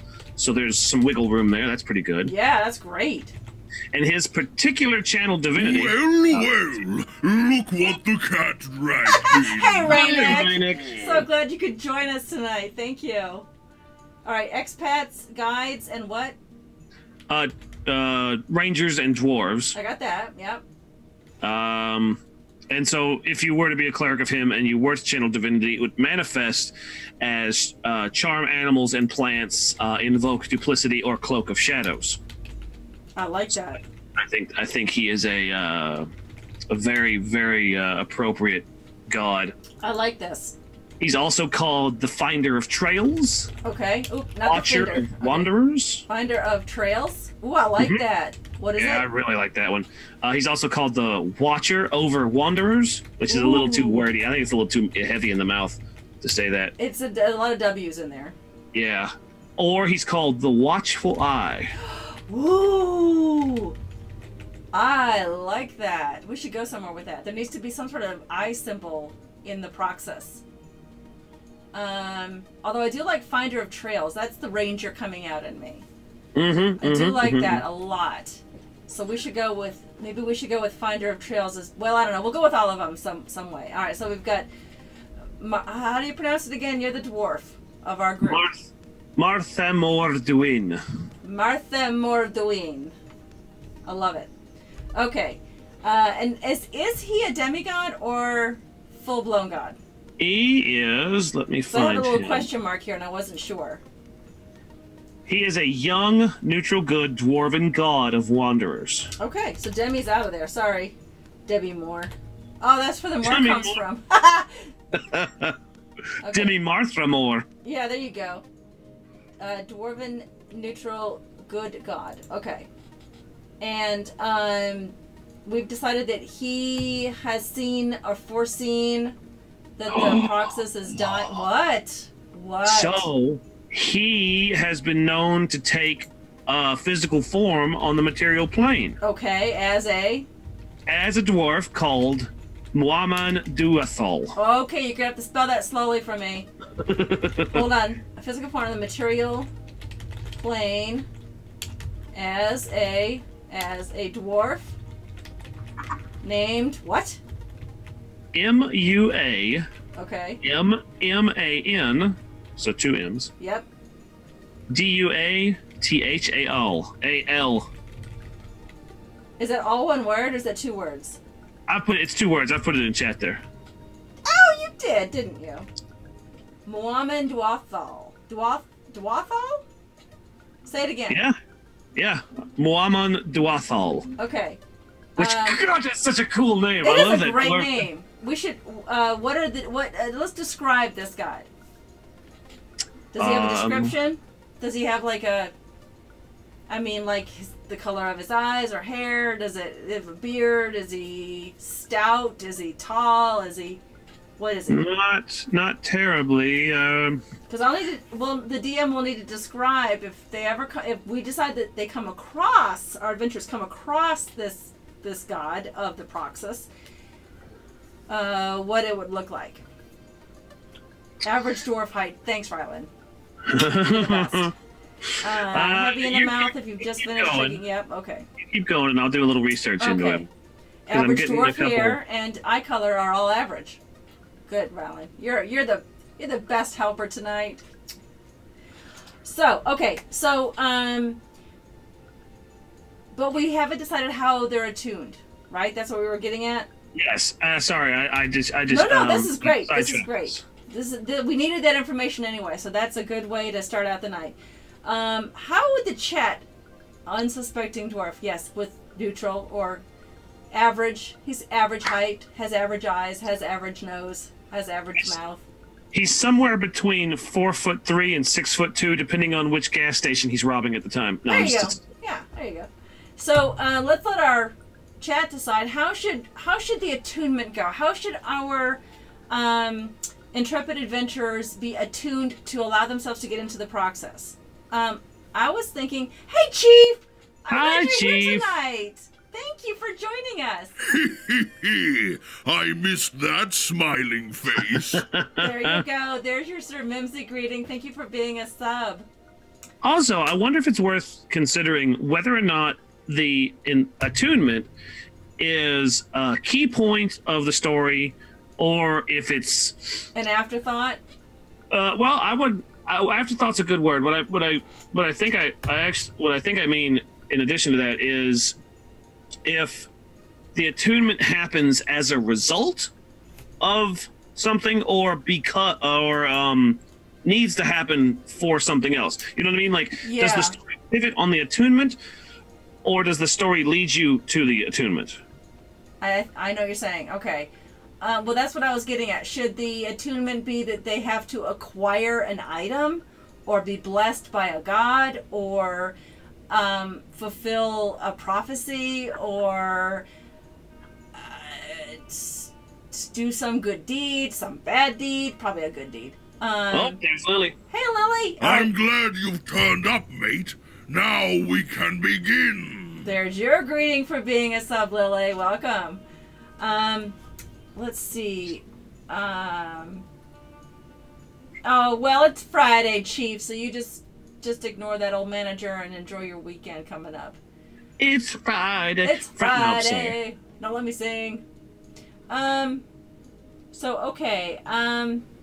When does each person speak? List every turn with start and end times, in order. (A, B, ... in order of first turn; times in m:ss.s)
0:00.4-0:02.3 A
0:02.2-0:03.3 B
0:03.9-0:06.5 A
0:05.5-0:10.8 C
0:09.1-0:13.4 B
0:09.9-0:11.3 A
0:14.2-0:16.4 B
0:17.3-0:19.7 A
0:19.7-0:20.6 B
0:21.4-0:32.2 A
0:33.2-0:33.8 B
0:34.2-0:36.1 A
0:36.7-0:39.5 A
0:39.8-0:40.6 B
0:41.0-0:43.5 A
0:43.6-0:45.5 B
0:44.4-0:46.0 A
0:46.1-0:49.0 B
0:47.8-0:48.0 A
0:48.8-0:56.7 A
0:53.3-0:54.0 B
0:56.8-0:58.3 B
0:58.7-1:01.7 A
1:01.8-1:03.7 B
1:04.7-1:10.4 B
1:11.7-1:15.8 B
1:16.3-1:17.6 A
1:16.8-1:24.5 B
1:25.4-1:28.5 B
1:28.2-1:28.6 A
1:29.2-1:30.8 A
1:31.2-1:32.9 B
1:33.8-1:34.3 B
1:35.0-1:39.8 B
1:40.2-1:42.5 A
1:41.7-1:43.8 B
1:45.2-1:49.1 A
1:49.2-1:54.7 B
1:53.2-1:53.8 A
1:54.9-1:55.6 A
1:56.2-1:56.5 B
1:56.3-1:57.4 A
1:57.6-1:58.4 B
1:59.4-2:02.7 B
2:03.6-2:09.2 B
2:09.8-2:13.1 B
2:09.9-2:11.4 A
2:12.6-2:19.0 A
2:19.0-2:20.3 B
2:20.9-2:24.3 A
2:24.4-2:26.5 B
2:26.8-2:27.6 A
2:27.5-2:29.5 B
2:30.3-2:31.1 B
2:32.1-2:34.8 B
2:36.2-2:37.2 B
2:38.3-2:39.7 A
2:39.9-2:40.4 B
2:40.4-2:43.3 A
2:43.4-2:43.6 B
2:44.7-2:47.7 A
2:49.4-2:51.2 B
2:51.7-2:53.4 A
2:54.2-2:55.7 B
2:56.6-2:59.6 B
3:00.6-3:01.2 B
3:01.1-3:01.3 A
3:01.9-3:04.1 A
3:04.2-3:04.6 B
3:05.2-3:05.6 B
3:05.2-3:07.9 A
3:06.8-3:11.5 B
3:13.1-3:15.5 B
3:13.2-3:13.9 A
3:16.7-3:23.8 B
3:24.4-3:24.9 B
3:24.7-3:27.2 A
3:27.5-3:36.7 B
3:38.1-3:39.6 B
3:41.2-3:42.9 B
3:43.4-3:44.5 A
3:43.8-3:44.5 B
3:45.0-3:47.6 A
3:45.2-3:48.3 B
3:48.4-3:50.3 A
3:49.8-3:50.3 B
3:50.9-3:53.8 B
3:50.9-3:52.0 A
3:54.5-3:57.6 B
3:59.2-4:01.2 B
4:03.1-4:06.7 B
4:06.9-4:10.4 A
4:08.7-4:16.4 B
4:17.1-4:19.8 B
4:20.5-4:25.4 B
4:25.9-4:31.8 A
4:31.3-4:50.8 B
4:47.5-4:48.5 A
4:50.8-4:55.0 C
4:54.7-4:55.8 A
4:55.4-4:59.0 B
4:59.8-5:04.7 A
5:05.4-5:10.0 A
5:10.1-5:11.0 B
5:11.7-5:18.6 A
5:19.4-5:19.9 A
5:20.5-5:22.9 A
5:23.6-5:32.0 A
5:30.0-5:30.5 B
5:32.8-5:35.2 A
5:36.0-5:45.9 B
5:46.5-5:50.0 B
5:51.1-5:57.0 B
5:56.7-5:57.6 A
5:57.7-5:58.7 B
5:58.4-6:03.0 C
6:03.0-6:06.0 B
6:06.6-6:07.2 B
6:07.8-6:10.0 B
6:11.6-6:17.4 B
6:18.0-6:20.2 A
6:19.0-6:21.4 B
6:22.3-6:22.8 B
6:23.7-6:25.2 B